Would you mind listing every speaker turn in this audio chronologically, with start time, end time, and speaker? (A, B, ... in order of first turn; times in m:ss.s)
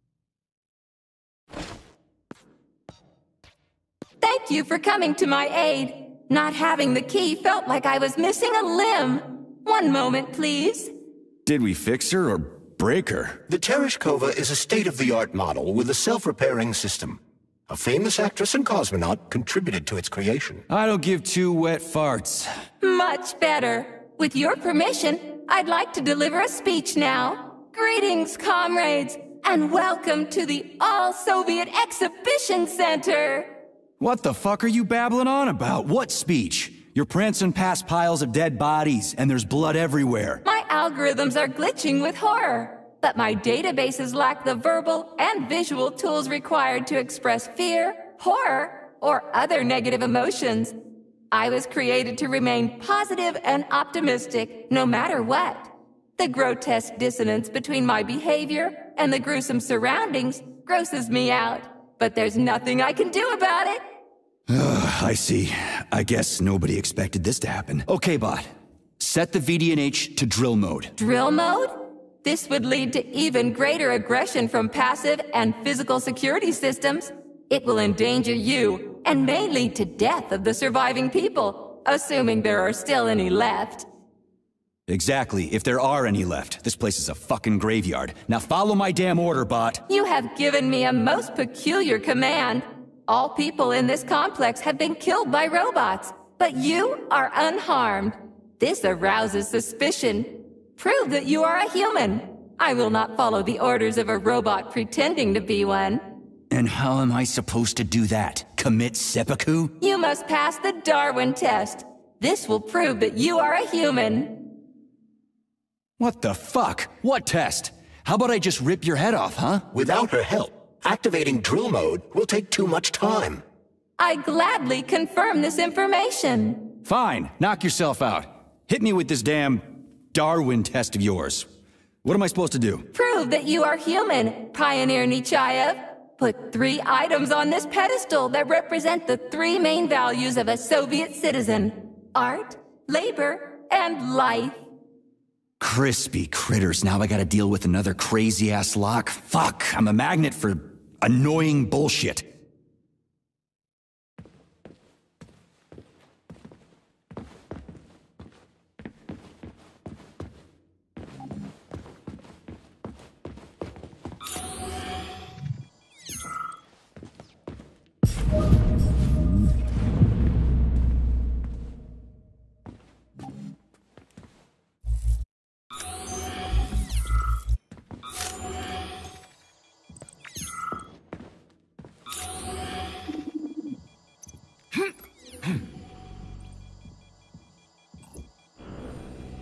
0:04.2-0:10.9 A
0:11.5-0:13.4 B
0:13.5-0:20.6 C
0:20.7-0:22.5 B
0:22.8-0:33.6 A
0:34.0-0:40.4 B
0:40.4-0:50.8 A
0:51.3-1:03.9 A
1:04.5-1:08.5 B
1:09.0-1:10.9 B
1:11.0-1:23.9 A
1:24.9-1:29.8 B
1:29.9-1:46.1 A
1:46.5-1:49.7 B
1:49.8-1:54.5 A
1:56.0-1:59.7 B
1:59.7-2:03.4 C
2:04.0-2:06.7 A
2:06.8-2:11.5 B
2:12.0-2:12.9 B
2:12.9-2:24.6 A
2:25.6-2:32.2 B